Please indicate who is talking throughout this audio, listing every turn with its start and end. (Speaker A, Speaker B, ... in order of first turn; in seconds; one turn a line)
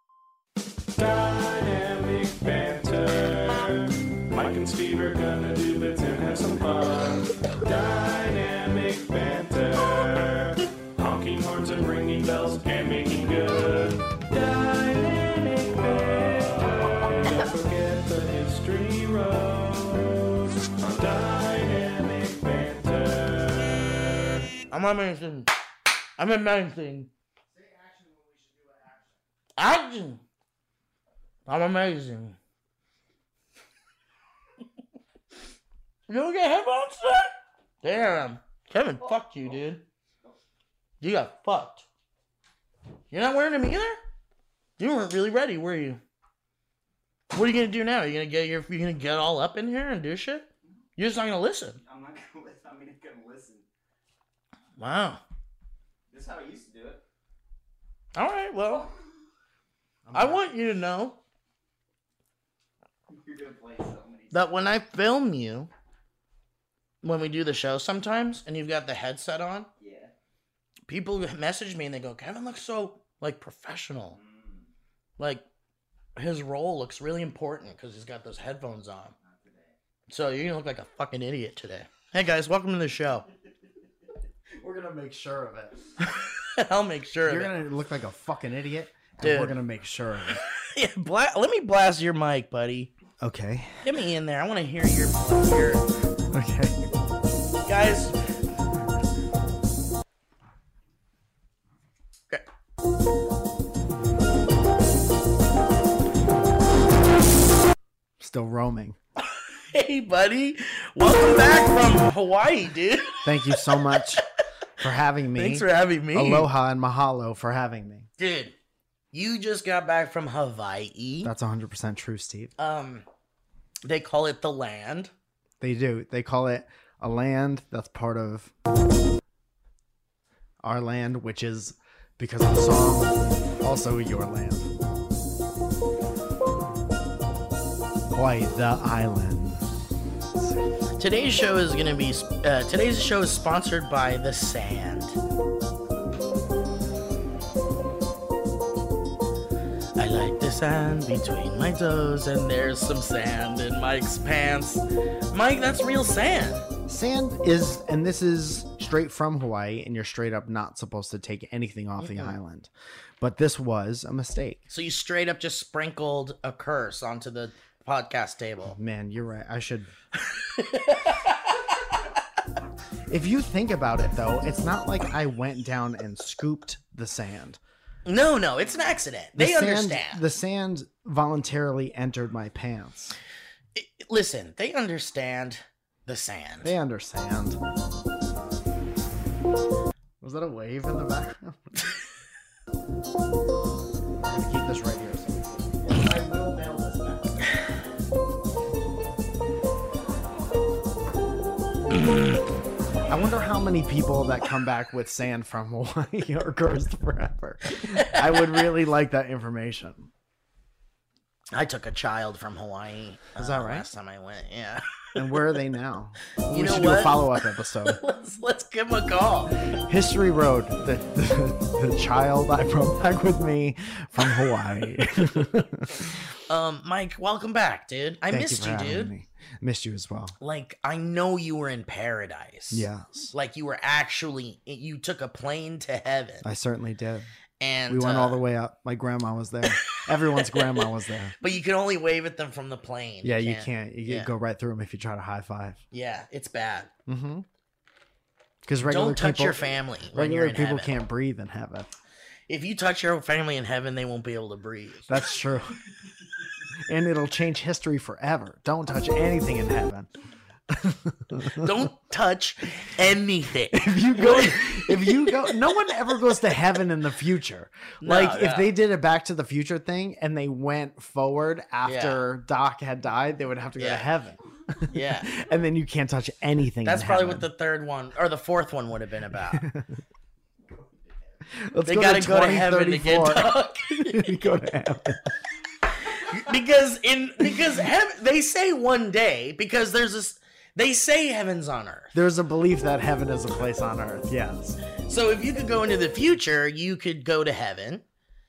Speaker A: 1.0-24.4
Speaker B: 24.7-25.5
Speaker B: 26.2-27.1
Speaker C: 27.6-28.7
Speaker B: 29.6-30.2
Speaker B: 31.5-32.4
Speaker B: 36.1-39.8
Speaker B: 41.0-41.9
Speaker B: 43.1-44.0
Speaker B: 44.8-46.0
Speaker B: 47.3-51.8
Speaker D: 51.8-53.7
Speaker B: 54.8-55.2
Speaker D: 56.1-57.0
Speaker B: 58.1-58.9
Speaker C: 60.0-60.4
Speaker B: 60.1-61.2
Speaker D: 63.1-64.5
Speaker B: 64.3-65.7
Speaker B: 67.0-69.7
Speaker D: 69.8-70.1
Speaker B: 70.9-74.2
Speaker D: 74.1-74.7
Speaker B: 75.2-75.5
Speaker B: 76.2-79.1
Speaker D: 79.2-79.7
Speaker B: 80.1-83.3
Speaker C: 84.6-85.8
Speaker B: 86.3-87.6
Speaker C: 87.2-90.4
Speaker B: 89.2-89.6
Speaker B: 90.5-92.9
Speaker C: 93.2-93.8
Speaker B: 93.8-95.8
Speaker C: 96.3-96.8
Speaker B: 97.7-98.2
Speaker C: 108.2-109.0
Speaker B: 109.7-114.2
Speaker C: 113.2-114.2
Speaker C: 114.8-118.1
Speaker B: 115.3-116.5
Speaker B: 118.2-118.5
Speaker B: 119.1-121.3
Speaker C: 121.2-122.5
Speaker B: 122.6-123.1
Speaker B: 123.8-125.1
Speaker C: 125.6-128.5
Speaker C: 130.6-134.7
Speaker C: 138.1-139.7
Speaker B: 141.0-145.2
Speaker B: 150.0-156.7
Speaker C: 156.9-164.7
Speaker B: 162.1-162.3
Speaker B: 164.7-168.8
Speaker C: 168.7-169.9
Speaker B: 170.2-171.7
Speaker C: 173.1-177.6
Speaker B: 178.1-180.2
Speaker C: 179.4-183.2
Speaker B: 183.8-186.7
Speaker C: 186.6-187.6
Speaker C: 190.2-191.7
Speaker C: 194.2-197.5
Speaker B: 201.9-202.4
Speaker C: 203.1-210.1
Speaker B: 207.9-208.6
Speaker B: 211.5-214.8
Speaker C: 213.4-213.9
Speaker C: 215.2-218.0
Speaker B: 216.5-219.6
Speaker C: 219.9-225.9
Speaker B: 226.5-229.1
Speaker C: 228.3-230.3
Speaker B: 230.4-236.5
Speaker C: 232.7-233.3
Speaker C: 236.4-237.3
Speaker B: 237.6-238.4
Speaker C: 237.9-241.3
Speaker B: 240.3-240.8
Speaker B: 241.4-244.3
Speaker C: 243.2-245.8
Speaker B: 245.9-246.9
Speaker C: 247.1-247.5
Speaker C: 248.6-251.9
Speaker B: 248.8-250.9
Speaker B: 252.5-255.2
Speaker C: 255.1-255.8
Speaker C: 256.9-260.1
Speaker C: 260.7-261.8
Speaker B: 261.5-265.6
Speaker C: 263.7-274.4
Speaker B: 268.0-268.7
Speaker B: 271.8-272.2
Speaker B: 273.8-274.1
Speaker B: 274.9-275.3
Speaker C: 274.9-277.5
Speaker B: 276.8-279.6
Speaker C: 279.5-279.9
Speaker C: 281.6-285.3
Speaker B: 281.9-284.5
Speaker B: 286.1-292.1
Speaker C: 292.1-294.8
Speaker B: 295.1-298.1